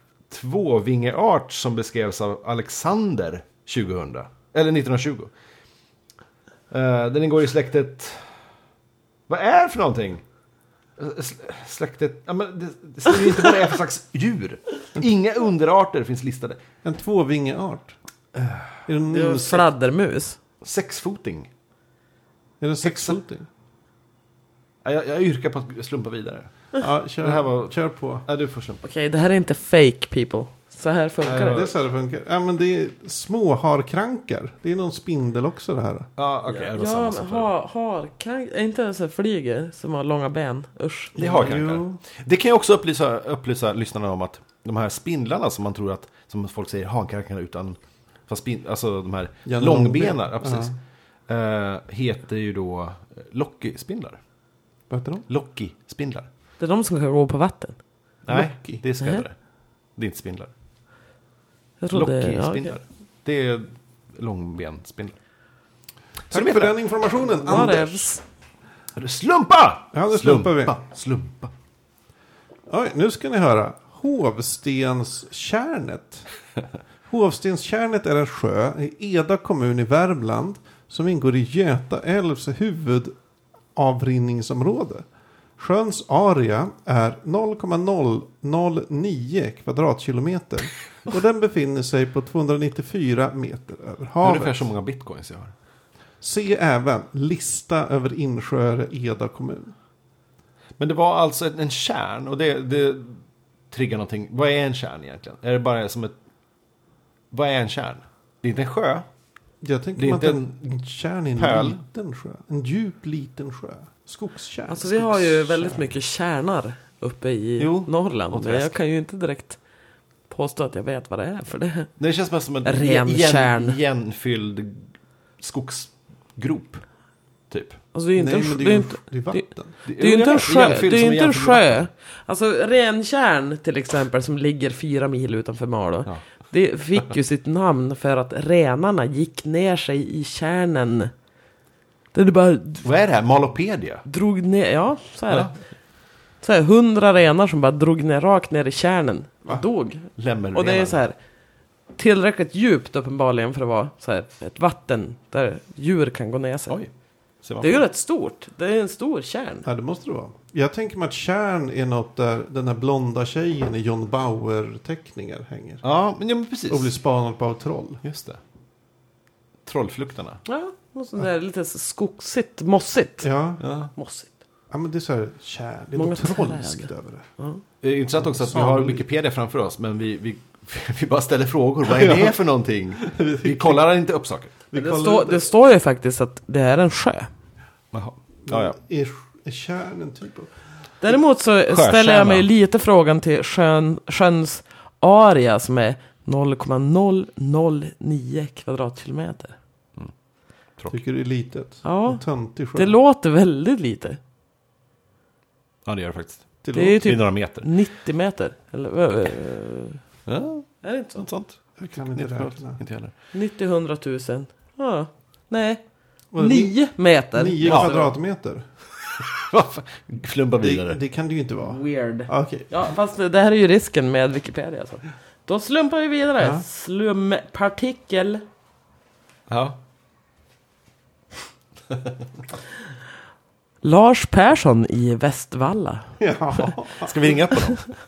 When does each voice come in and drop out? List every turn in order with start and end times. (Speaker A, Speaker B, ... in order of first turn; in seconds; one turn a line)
Speaker A: 0.3-5.3
Speaker A: 6.7-8.3
Speaker A: 9.3-10.2
Speaker A: 11.0-16.6
Speaker B: 16.8-17.9
Speaker A: 18.3-18.8
Speaker B: 18.9-19.7
Speaker C: 19.1-20.4
Speaker A: 20.6-21.5
Speaker B: 22.6-23.5
Speaker A: 22.8-23.2
Speaker A: 24.8-28.8
Speaker B: 26.8-28.2
Speaker C: 28.8-31.6
Speaker A: 31.2-31.7
Speaker B: 31.4-36.1
Speaker A: 36.2-37.5
Speaker C: 36.5-41.2
Speaker B: 41.1-42.0
Speaker A: 41.1-50.7
Speaker B: 49.5-50.7
Speaker A: 51.3-54.2
Speaker B: 54.9-55.2
Speaker A: 55.3-56.3
Speaker C: 56.6-57.8
Speaker A: 58.2-59.3
Speaker B: 58.3-58.8
Speaker A: 60.0-60.5
Speaker C: 61.8-62.7
Speaker A: 61.9-65.1
Speaker A: 66.3-66.8
Speaker B: 66.3-68.1
Speaker C: 67.2-68.2
Speaker A: 67.5-67.8
Speaker A: 69.0-71.5
Speaker B: 69.9-70.8
Speaker B: 72.7-76.3
Speaker B: 77.1-83.1
Speaker B: 83.7-85.0
Speaker B: 85.6-94.5
Speaker A: 94.2-95.5
Speaker B: 96.2-99.7
Speaker A: 100.8-106.1
Speaker A: 107.3-109.1
Speaker B: 109.6-115.9
Speaker A: 110.0-110.8
Speaker A: 111.3-111.8
Speaker C: 114.7-119.6
Speaker A: 117.6-118.7
Speaker C: 120.3-121.9
Speaker A: 122.0-126.8
Speaker C: 122.6-123.8
Speaker A: 127.5-127.8
Speaker C: 127.9-141.1
Speaker B: 128.2-129.7
Speaker A: 129.8-131.8
Speaker C: 142.1-142.8
Speaker A: 142.8-144.0
Speaker C: 144.1-145.5
Speaker A: 145.3-145.5
Speaker C: 146.4-151.2
Speaker A: 150.2-151.0
Speaker C: 151.9-156.8
Speaker A: 157.4-157.8
Speaker C: 157.6-159.7
Speaker B: 159.6-165.8
Speaker A: 165.8-166.9
Speaker B: 166.7-168.0
Speaker A: 168.0-168.4
Speaker A: 169.7-170.4
Speaker C: 170.4-173.3
Speaker B: 173.2-173.6
Speaker A: 173.6-173.9
Speaker C: 173.9-174.3
Speaker B: 174.7-177.3
Speaker C: 175.9-177.6
Speaker A: 177.8-184.5
Speaker B: 178.2-179.0
Speaker B: 181.9-182.3
Speaker B: 183.0-183.8
Speaker B: 184.7-185.5
Speaker C: 184.7-187.3
Speaker A: 187.9-188.8
Speaker B: 188.5-190.5
Speaker C: 191.0-199.6
Speaker A: 191.7-192.5
Speaker B: 200.9-202.9
Speaker C: 201.8-204.2
Speaker A: 205.8-207.7
Speaker B: 206.6-207.0
Speaker C: 206.7-210.0
Speaker A: 210.2-213.1
Speaker C: 210.8-211.3
Speaker B: 211.8-212.8
Speaker C: 213.3-215.8
Speaker B: 216.3-216.8
Speaker C: 216.3-218.1
Speaker B: 217.3-218.7
Speaker A: 217.6-217.9
Speaker A: 219.1-221.0
Speaker B: 220.6-222.7
Speaker C: 221.6-228.4
Speaker B: 226.4-226.6
Speaker A: 229.5-229.8
Speaker C: 233.8-236.1
Speaker B: 236.2-237.3
Speaker A: 236.9-237.9